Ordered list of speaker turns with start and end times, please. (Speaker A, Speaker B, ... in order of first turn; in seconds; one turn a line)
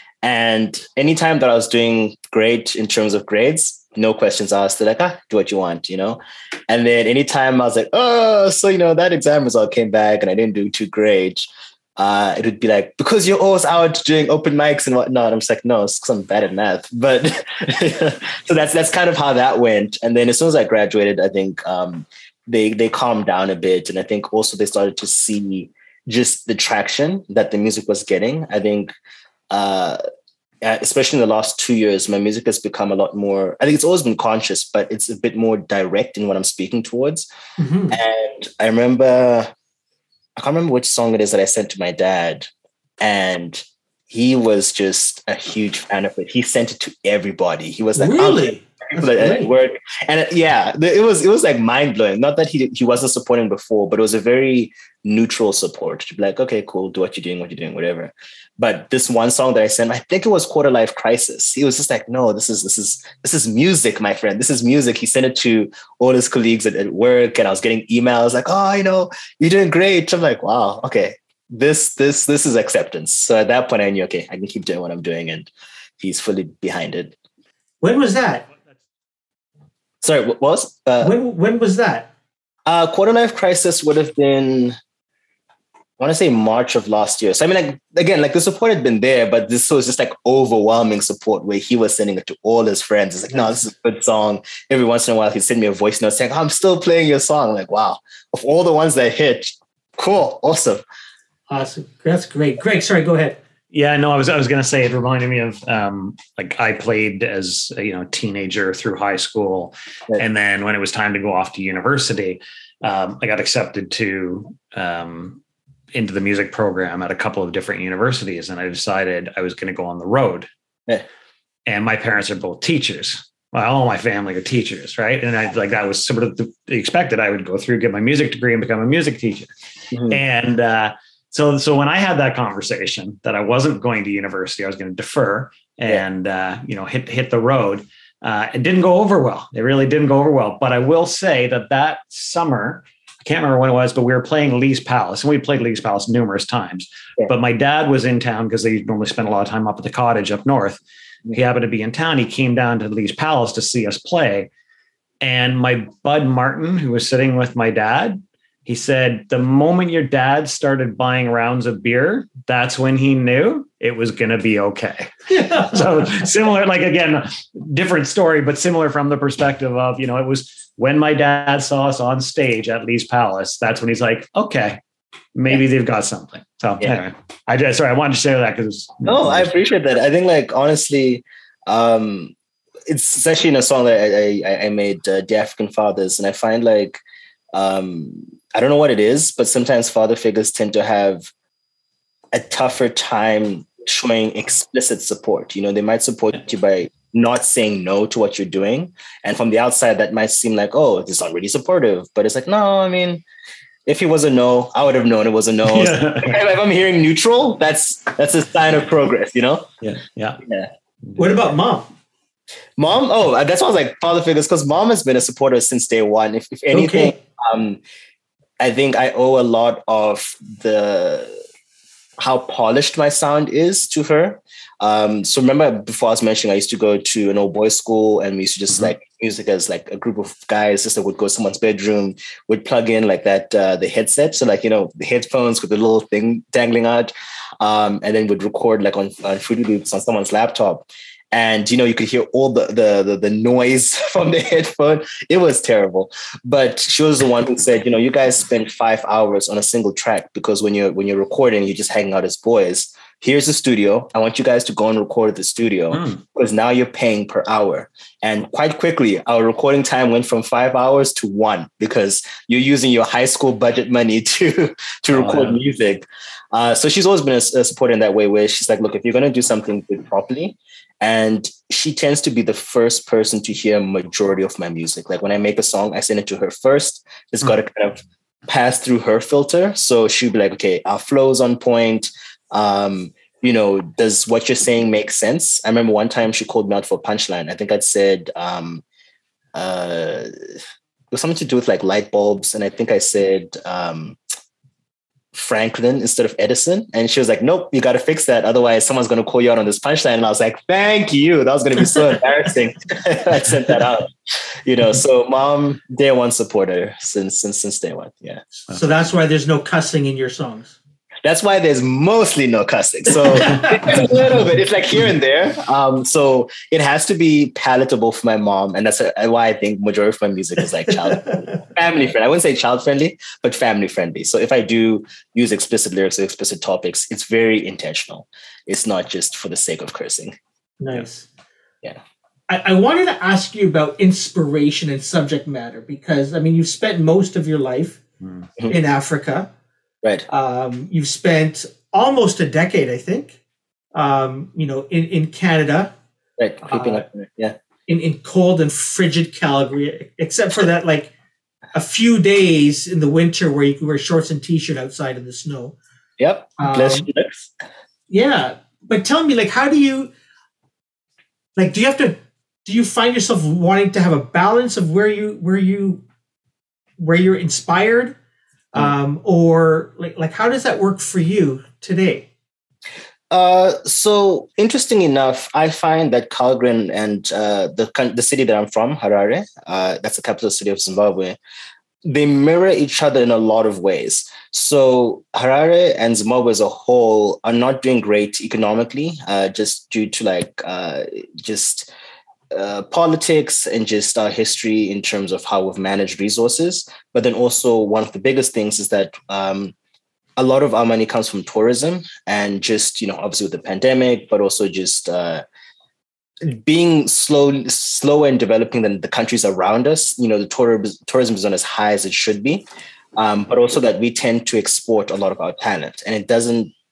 Speaker A: 0.2-28.9
Speaker A: 29.5-30.0
Speaker A: 30.6-37.3
Speaker B: 37.6-38.0
Speaker A: 37.9-39.5
Speaker A: 40.4-42.5
Speaker A: 43.0-77.1
Speaker B: 48.0-49.5
Speaker B: 77.8-78.5
Speaker A: 80.0-81.1
Speaker B: 81.0-82.1
Speaker A: 82.7-84.7
Speaker A: 86.0-100.8
Speaker B: 93.3-93.6
Speaker B: 101.5-103.4
Speaker C: 103.7-115.4
Speaker C: 115.9-120.5
Speaker C: 121.7-129.5
Speaker A: 129.9-130.2
Speaker C: 130.1-150.8
Speaker C: 151.3-154.5
Speaker C: 155.2-174.8
Speaker C: 175.3-179.5
Speaker A: 179.1-182.3
Speaker A: 182.9-187.0
Speaker A: 187.5-191.3
Speaker A: 192.3-203.2
Speaker A: 203.8-209.7
Speaker C: 205.7-206.4
Speaker C: 209.8-210.4
Speaker A: 210.4-210.7
Speaker B: 211.2-211.9
Speaker A: 212.8-217.8
Speaker B: 216.7-217.2
Speaker A: 218.6-221.3
Speaker A: 222.2-288.8
Speaker C: 255.9-256.2
Speaker C: 265.1-265.6
Speaker A: 289.5-290.5
Speaker A: 291.1-294.2
Speaker A: 295.3-308.4
Speaker B: 308.7-310.8
Speaker A: 311.2-330.3
Speaker B: 313.3-313.7
Speaker B: 321.2-321.5
Speaker B: 330.8-331.3
Speaker B: 332.5-338.0
Speaker B: 338.7-339.5
Speaker B: 340.3-343.4
Speaker B: 343.9-345.9
Speaker A: 346.4-347.6
Speaker B: 346.7-347.0
Speaker B: 347.9-351.1
Speaker B: 351.7-355.8
Speaker A: 356.2-357.5
Speaker B: 356.6-357.1
Speaker B: 358.1-360.1
Speaker B: 361.6-366.0
Speaker B: 367.0-368.1
Speaker B: 368.7-372.3
Speaker A: 373.3-381.4
Speaker A: 382.0-391.9
Speaker A: 392.5-399.7
Speaker A: 400.4-405.4
Speaker A: 406.4-412.6
Speaker A: 413.1-416.7